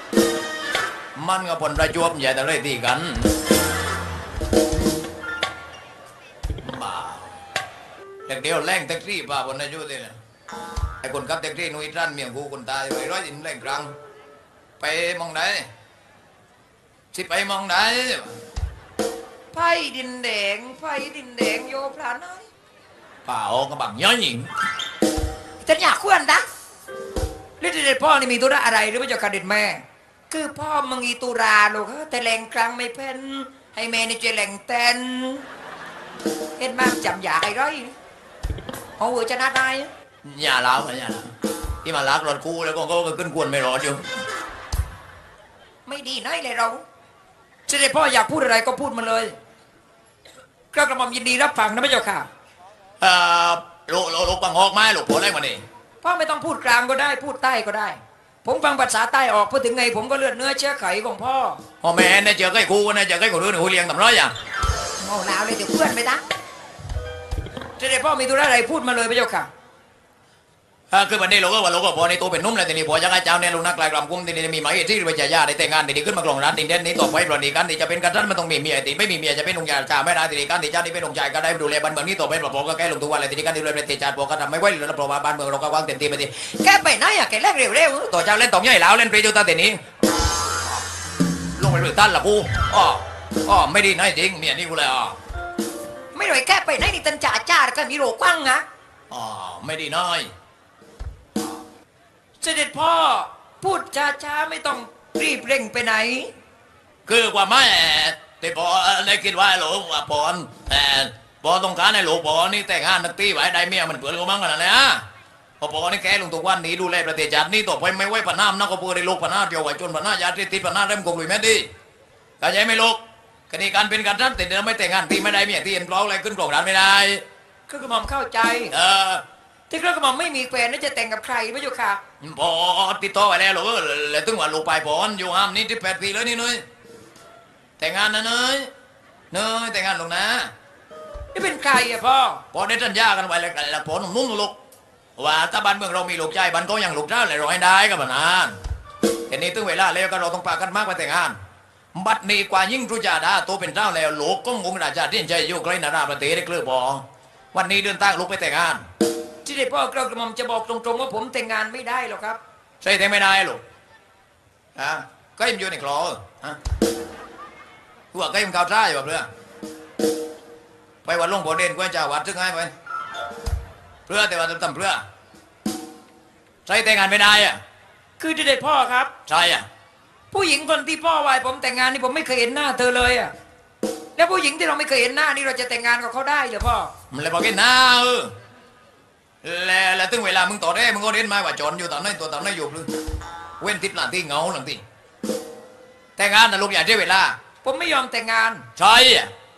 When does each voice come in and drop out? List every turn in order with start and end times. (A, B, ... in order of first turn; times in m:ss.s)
0:01.2-0:03.4 A
0:06.6-0:07.4 A
0:08.2-0:10.2 A
0:11.0-0:13.9 A
0:14.8-0:15.7 A
0:17.1-0:18.4 A
0:19.5-0:22.5 B
0:23.2-0:24.5 A
0:25.6-0:26.4 B
0:27.6-0:35.4 B
0:36.6-0:37.9 B
0:39.0-0:39.9 B
0:40.2-0:41.3 A
0:41.8-0:44.0 A
0:45.8-0:46.8 B
0:47.7-0:49.3 B
0:50.7-0:52.3 B
0:53.0-0:55.6 A
0:56.0-1:01.6 B
1:01.8-1:04.3 A
1:05.0-1:06.2 B
1:07.8-1:09.5 B
1:10.9-1:26.6 A
1:26.6-1:28.0 B
1:28.0-1:29.8 A
1:31.6-1:35.2 A
1:36.1-1:38.6 B
1:39.1-1:40.3 A
1:42.4-1:46.3 B
1:47.0-1:55.0 A
1:55.6-2:01.7 A
2:02.4-2:03.0 A
2:03.5-2:07.2 A
2:07.7-2:08.7 B
2:08.7-2:09.2 A
2:09.7-2:12.0 B
2:12.2-2:16.6 A
2:17.8-2:18.7 A
2:19.3-2:20.5 A
2:21.3-2:22.4 B
2:22.5-2:24.5 A
2:25.2-2:28.5 A
2:29.3-2:31.4 A
2:31.9-2:37.0 A
2:37.5-2:38.8 A
2:39.4-2:42.4 B
2:42.8-2:43.6 A
2:44.8-2:46.6 A
2:48.1-2:49.3 A
2:51.0-2:52.7 A
2:54.1-2:55.0 A
2:56.6-2:57.6 A
2:58.2-2:59.1 B
2:59.3-2:59.6 A
3:00.3-3:03.3 B
3:04.2-3:06.9 B
3:07.1-3:08.3 A
3:09.4-3:12.9 A
3:13.6-3:14.8 A
3:16.2-3:17.3 A
3:17.6-3:18.6 B
3:18.8-3:19.3 A